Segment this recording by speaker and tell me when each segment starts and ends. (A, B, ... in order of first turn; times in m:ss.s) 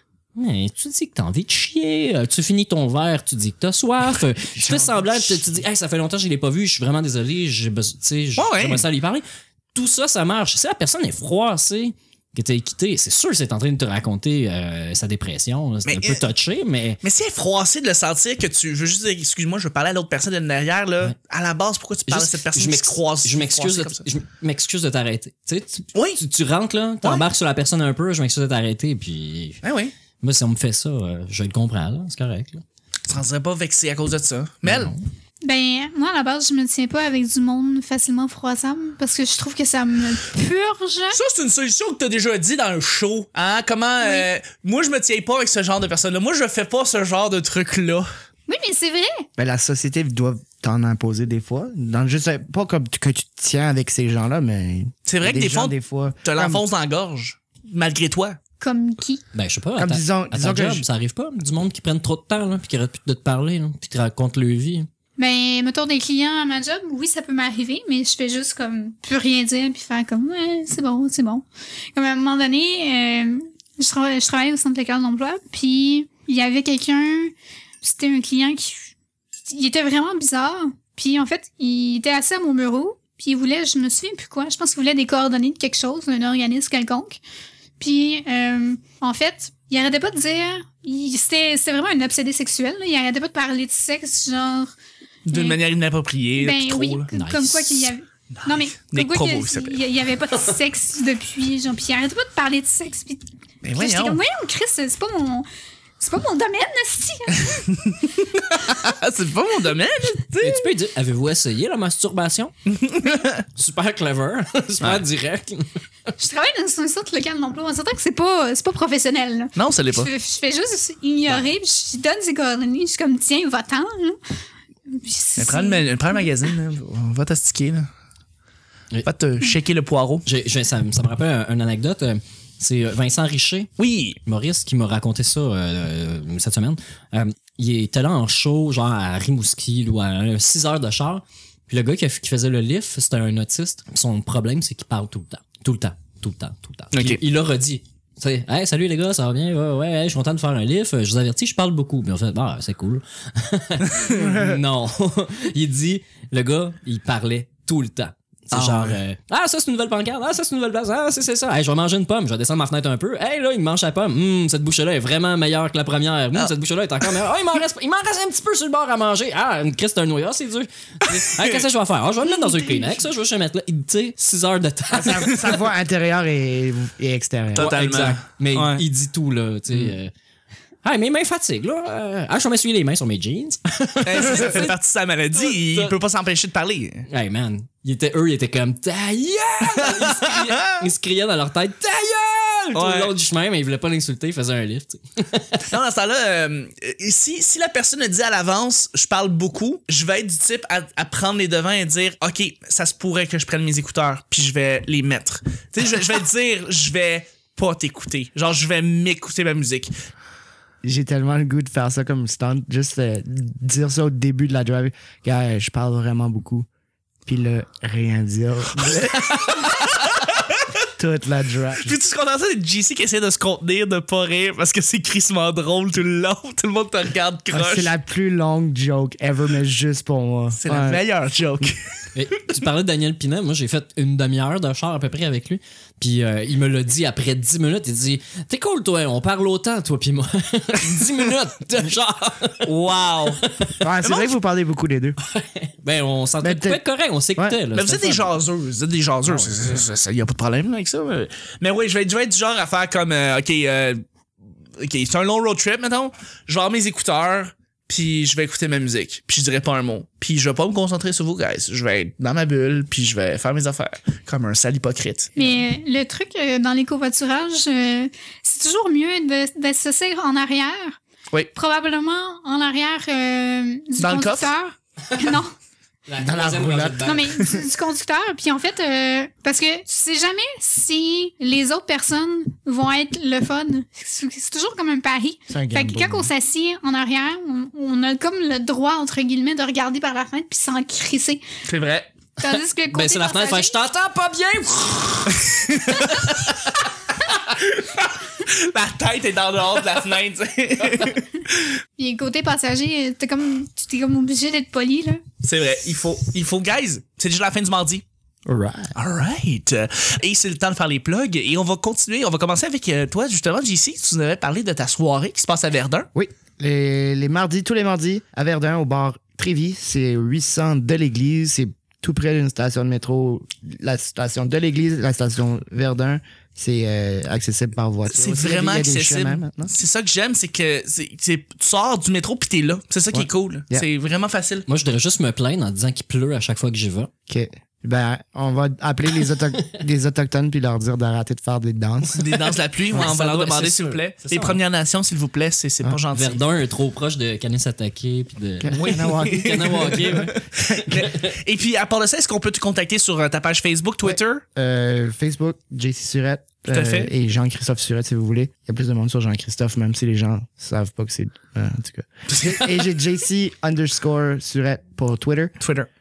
0:00.4-0:17.0 A
0:04.6-0:05.4 B
0:08.4-0:08.8 C
0:15.8-0:16.2 C
0:17.0-0:24.0 C
0:22.1-0:29.6 A
0:25.9-0:26.2 C
0:29.6-0:29.9 C
0:30.2-0:32.6 A
0:33.1-0:34.9 C
0:34.6-0:35.0 A
0:35.4-0:41.2 D
0:41.1-0:48.1 C
0:48.5-0:49.2 D
0:49.4-0:56.6 B
0:55.1-0:58.4 C
0:58.6-0:59.2 D
0:59.3-1:04.9 A
0:59.8-1:00.8 B
1:05.2-1:18.9 D
1:19.4-1:27.2 D
1:27.8-1:34.7 D
1:35.2-1:37.1 C
1:35.3-1:35.6 D
1:36.4-1:45.4 D
1:37.1-1:37.9 A
1:38.4-1:39.8 C
1:43.6-1:44.2 C
1:46.0-1:47.7 D
1:47.4-1:50.7 C
1:50.4-1:52.5 A
1:52.7-1:53.4 C
1:53.6-1:55.7 A
1:56.2-2:04.2 D
1:59.6-2:00.1 C
2:04.9-2:06.2 D
2:05.4-2:07.9 C
2:09.0-2:10.2 C
2:10.2-2:13.7 A
2:13.8-2:14.2 C
2:14.2-2:55.4 A
2:26.9-2:27.2 C
2:34.2-2:34.6 B
2:38.5-2:39.0 C
2:52.2-2:53.0 D
2:54.9-2:57.7 B
2:57.5-2:58.8 C
2:57.6-3:00.1 A
3:00.8-3:04.7 A
3:04.0-3:07.0 C
3:05.4-3:05.9 A
3:07.1-3:15.6 A
3:09.8-3:10.8 C
3:12.7-3:13.1 C
3:15.6-3:29.9 C
3:30.8-3:36.7 B
3:37.2-3:39.7 B
3:39.5-3:40.6 C
3:41.0-3:42.0 B
3:41.8-3:47.9 C
3:47.5-3:51.0 B
3:50.6-3:51.8 C
3:52.1-4:02.7 A
4:02.6-4:03.4 C
4:03.4-4:03.7 A
4:03.8-4:05.2 B
4:04.0-4:04.3 C
4:05.2-4:08.3 A
4:06.4-4:06.8 B
4:07.7-4:14.0 C
4:09.2-4:09.6 A
4:14.8-4:25.5 C
4:25.4-4:31.0 D
4:31.5-4:35.5 D
4:34.0-4:34.5 C
4:36.1-4:37.4 A
4:36.2-4:37.5 B
4:37.0-4:51.4 D
4:45.5-4:46.3 B
4:51.6-4:52.1 C
4:52.4-4:53.8 D
4:52.9-4:56.6 A
4:55.5-4:56.0 C
4:57.5-5:01.8 C
5:02.0-5:05.2 D
5:05.4-5:08.0 C
5:08.4-5:08.9 B
5:08.9-5:16.1 C
5:16.1-5:29.7 B
5:28.1-5:34.6 C
5:33.1-5:33.8 B
5:34.7-5:37.1 A
5:37.3-5:42.2 B
5:42.1-5:46.4 C
5:42.9-5:44.6 A
5:46.1-5:50.4 A
5:48.6-5:51.1 B
5:48.7-5:54.4 C
5:50.9-5:51.3 A
5:54.0-6:05.5 B
5:56.7-5:57.1 C
6:02.3-6:02.7 C
6:05.6-6:05.9 C